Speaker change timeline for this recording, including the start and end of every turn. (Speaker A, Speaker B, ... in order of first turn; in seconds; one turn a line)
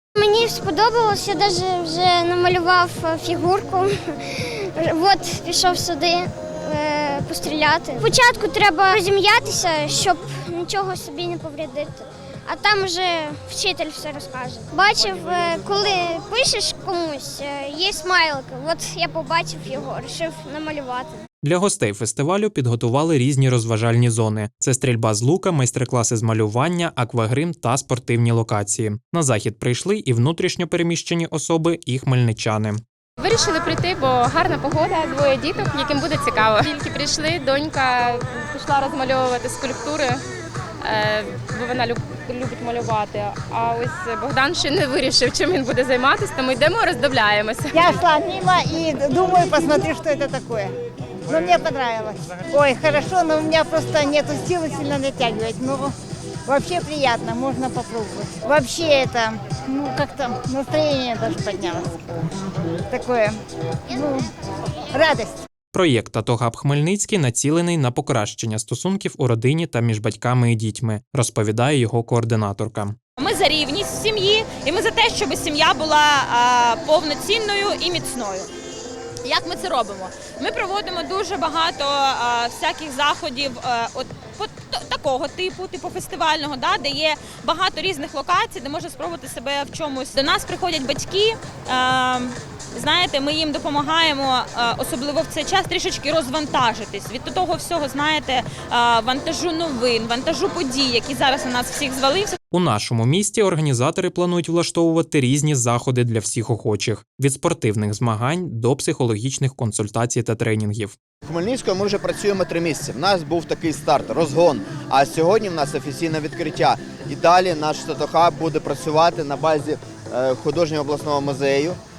Speaker A: 0.2-21.2
Speaker B: 21.4-32.8
Speaker C: 33.2-40.2
Speaker C: 40.8-47.7
Speaker D: 47.7-50.7
Speaker D: 51.3-55.9
Speaker D: 56.5-62.0
Speaker D: 62.9-63.3
Speaker D: 63.9-64.3
Speaker D: 64.9-65.4
Speaker B: 65.7-73.0
Speaker E: 73.2-78.5
Speaker E: 79.2-102.4
Speaker B: 102.5-111.0
Speaker F: 111.2-121.8